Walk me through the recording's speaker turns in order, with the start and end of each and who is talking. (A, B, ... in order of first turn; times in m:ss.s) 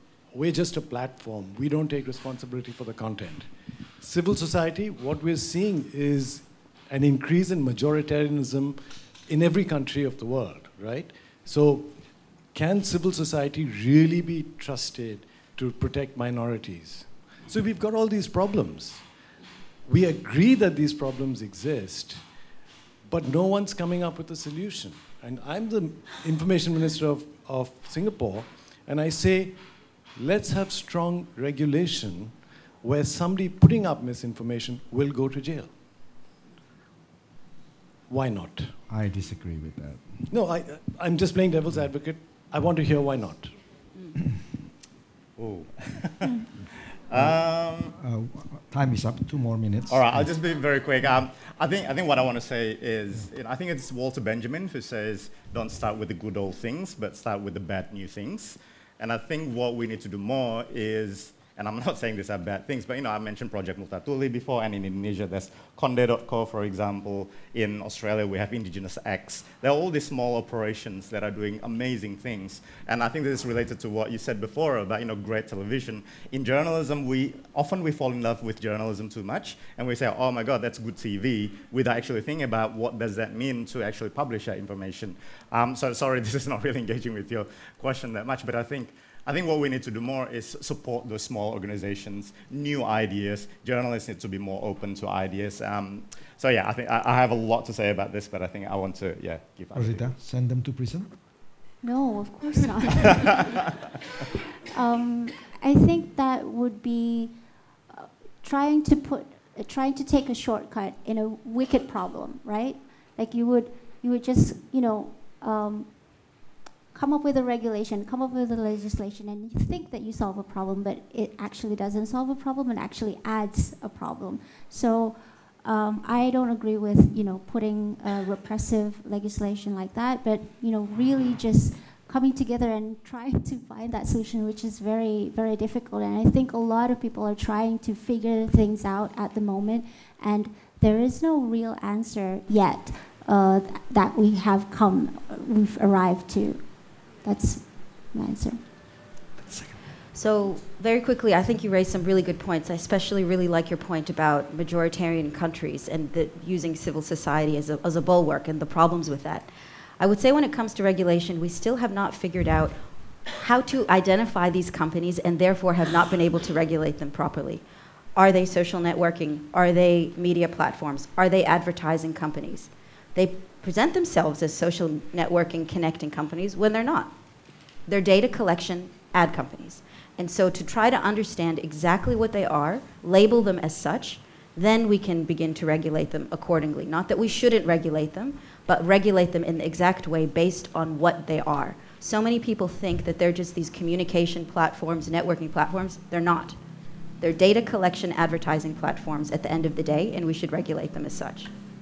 0:00.3-0:19.1 A
0:19.8-0:22.3 A
0:23.0-0:35.7 A
0:38.1-0:38.8 A
0:38.9-0:40.3 B
0:40.3-0:43.6 A
0:45.4-0:46.5 C
0:47.1-0:47.9 C
0:47.1-0:50.3 B
0:49.9-1:40.1 C
1:39.7-1:41.1 B
1:41.8-1:43.5 D
1:44.7-1:47.3 D
1:47.9-1:55.9 D
1:56.9-2:26.6 D
2:27.2-2:28.6 D
2:29.4-2:29.8 B
2:30.1-2:42.8 E
2:43.3-2:47.6 E
2:48.2-2:57.1 E
2:57.9-3:16.6 E
3:17.2-3:21.5 E